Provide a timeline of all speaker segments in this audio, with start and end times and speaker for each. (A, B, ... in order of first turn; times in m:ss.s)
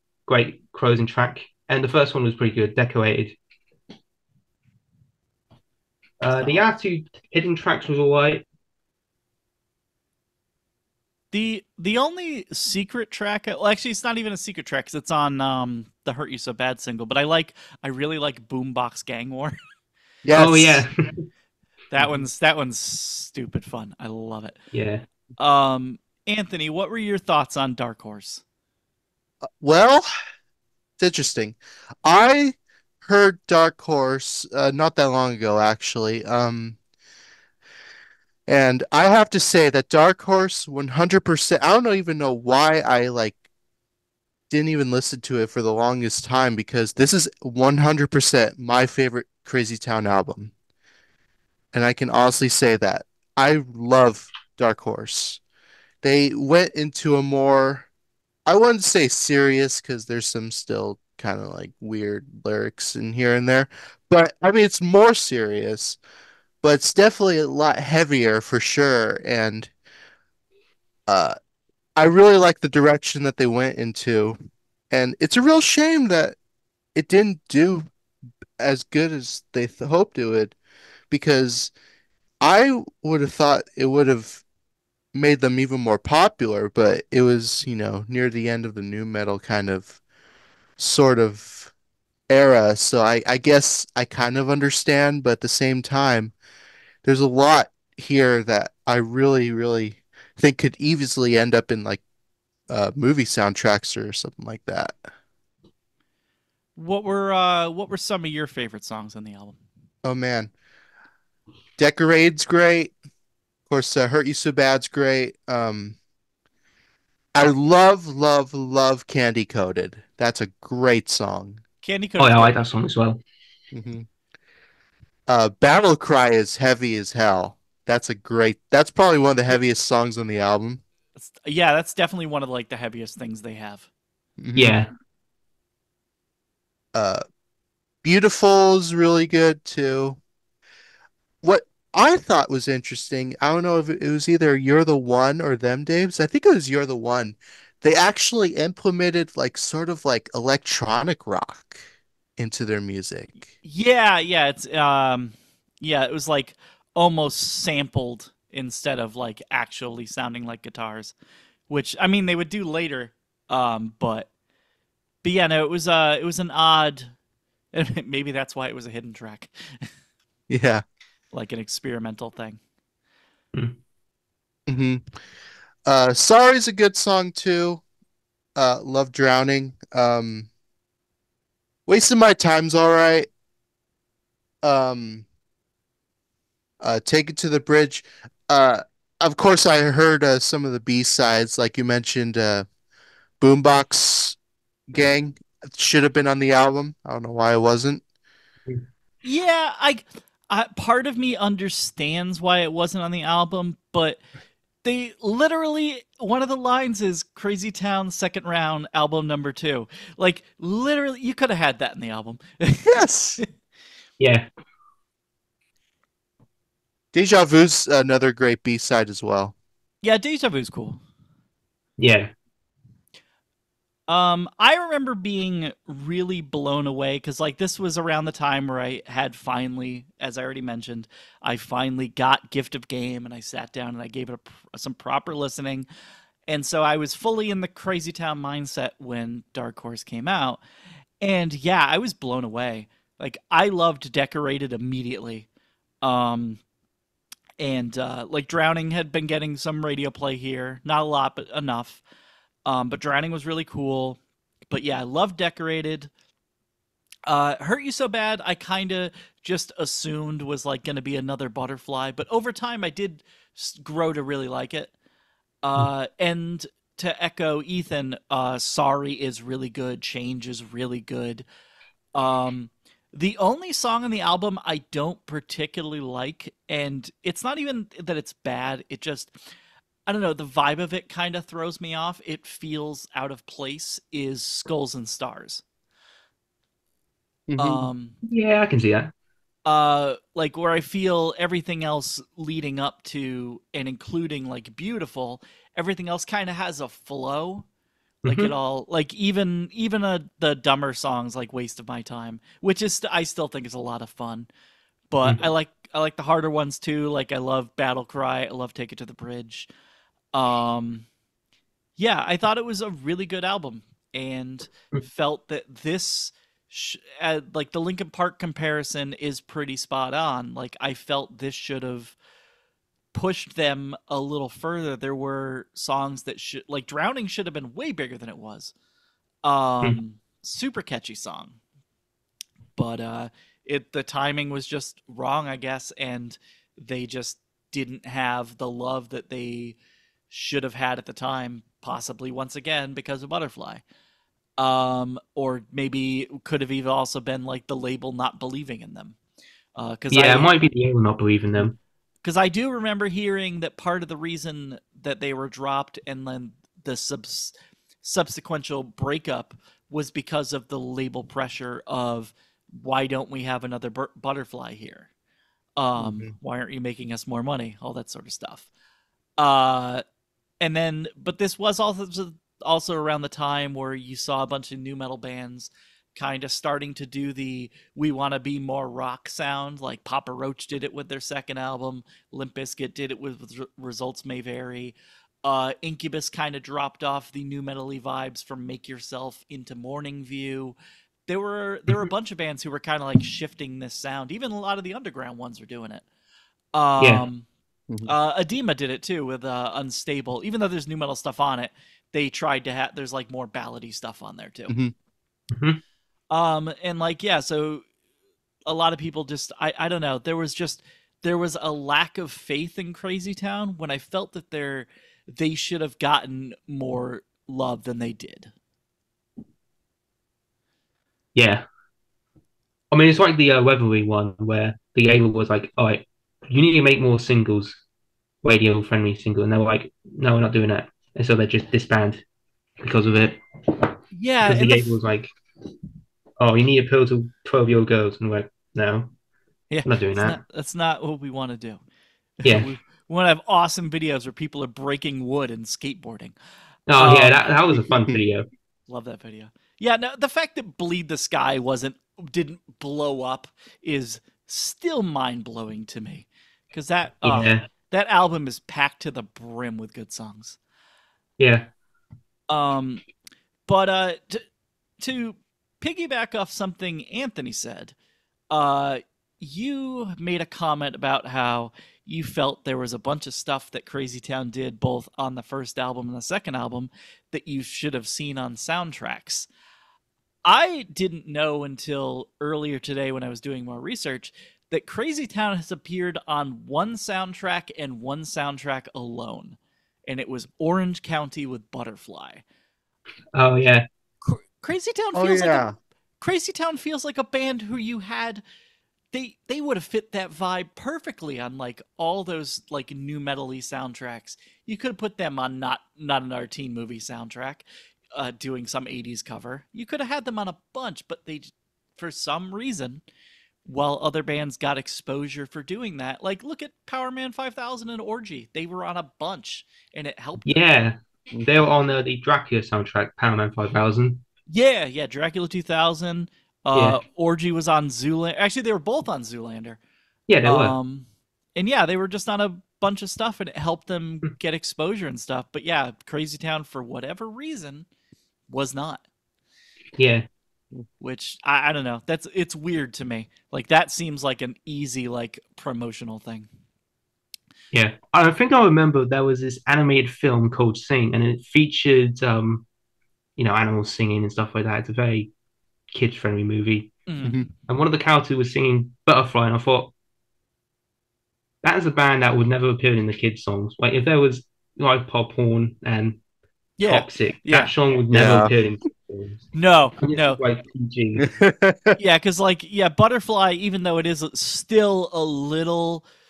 0:00.3-0:03.4 A
0:06.2-0:08.4 A
0:11.3-0:19.5 B
0:20.2-0:20.8 C
0:20.4-0:21.2 A
0:21.9-0:24.6 B
0:24.7-0:25.0 A
0:25.4-0:28.4 B
0:29.6-0:30.0 C
0:31.0-0:36.8 C
0:38.5-0:43.4 C
0:44.5-0:50.5 C
0:51.7-0:55.4 C
0:56.0-0:57.9 C
0:58.4-1:06.0 C
1:06.6-1:09.7 C
1:11.1-1:11.3 C
1:12.0-1:14.4 C
1:14.9-1:16.4 C
1:16.9-1:17.9 C
1:18.6-1:20.6 C
1:21.1-1:21.7 C
1:22.4-1:24.4 C
1:25.1-1:30.0 C
1:30.8-1:31.7 C
1:32.3-1:36.3 C
1:37.0-1:42.0 C
1:42.7-1:45.0 C
1:46.8-1:49.6 B
1:50.0-1:50.5 C
1:51.8-1:52.9 C
1:53.7-1:56.0 C
1:57.3-2:01.6 C
2:01.8-2:02.5 B
2:02.2-2:03.2 A
2:03.7-2:04.1 C
2:05.3-2:10.8 C
2:11.2-2:13.9 B
2:14.4-2:14.8 C
2:14.5-2:14.9 A
2:16.9-2:17.2 C
2:18.0-2:20.2 C
2:21.4-2:31.8 C
2:32.4-2:33.4 C
2:33.6-2:41.1 B
2:41.7-2:44.3 B
2:45.2-2:47.1 B
2:47.7-2:49.9 B
2:50.5-2:50.8 C
2:51.3-2:52.6 B
2:54.7-2:55.0 C
2:55.8-2:57.8 C
2:58.5-3:00.5 C
3:01.9-3:03.3 C
3:04.6-3:05.2 C
3:06.8-3:12.7 C
3:13.4-3:14.4 C
3:14.9-3:18.0 C
3:19.2-3:24.2 B
3:24.8-3:33.4 B
3:32.8-3:33.4 C
3:34.2-3:34.5 A
3:37.1-3:39.5 C
3:40.0-3:41.0 B
3:42.0-3:42.3 A
3:44.1-3:55.9 B
3:56.5-4:00.6 B
4:01.2-4:05.5 B
4:06.0-4:06.6 B
4:07.6-4:12.0 B
4:12.6-4:16.1 B
4:17.3-4:24.9 B
4:25.6-4:31.4 B
4:32.1-4:39.4 B
4:40.1-4:45.6 B
4:47.5-4:47.8 C
4:47.6-4:48.2 B
4:48.2-4:49.1 A
4:49.6-4:57.6 B
4:58.2-5:04.5 B
4:58.2-4:58.5 A
5:05.1-5:09.7 B
5:10.3-5:11.1 B
5:12.0-5:22.2 B
5:23.1-5:28.7 B
5:29.4-5:31.6 B
5:32.8-5:39.8 B
5:40.3-5:43.8 B
5:44.6-5:49.2 B
5:49.8-5:50.5 B
5:50.1-5:51.8 A
5:52.2-6:05.1 B
6:05.8-6:08.7 B
6:06.0-6:06.3 C
6:09.4-6:10.0 B
6:10.6-6:30.8 B
6:31.3-6:36.0 B
6:36.7-6:37.4 B
6:37.0-6:37.2 A
6:38.0-6:44.8 B
6:44.7-6:44.9 C
6:45.5-6:45.8 A
6:46.3-6:47.8 B
6:48.6-6:58.5 B
7:01.3-7:01.6 A
7:02.9-7:07.8 A
7:08.4-7:12.2 A
7:12.8-7:13.9 A
7:14.1-7:14.9 B
7:14.4-7:15.3 A
7:16.4-7:19.1 A
7:19.7-7:21.8 B
7:19.8-7:20.4 A
7:22.4-7:26.3 B
7:26.9-7:28.4 A
7:27.0-7:27.4 B
7:28.9-7:40.6 B
7:37.2-7:37.6 A
7:41.4-7:41.7 A
7:42.5-7:43.0 B
7:43.7-7:44.4 B
7:45.0-7:47.9 B
7:48.5-7:59.5 B
8:00.4-8:12.4 B
8:13.3-8:13.8 A
8:14.2-8:15.7 B
8:15.1-8:15.8 C
8:16.2-8:18.4 B
8:19.1-8:33.0 B
8:33.6-8:40.5 B
8:40.4-8:44.2 A
8:44.5-8:49.8 B
8:46.7-8:47.0 A
8:50.3-8:50.8 A
8:50.4-8:57.8 B
8:58.5-8:59.0 B
9:00.0-9:00.3 A
9:01.0-9:06.5 B
9:07.7-9:12.7 A
9:13.4-9:15.3 A
9:15.9-9:16.9 A
9:17.1-9:17.5 B
9:17.7-9:19.9 A
9:21.6-9:26.2 A
9:26.8-9:27.7 B
9:26.8-9:29.5 A
9:28.1-9:28.5 C
9:29.5-9:30.4 B
9:30.0-9:31.3 A
9:31.2-9:32.0 C
9:32.0-9:36.0 B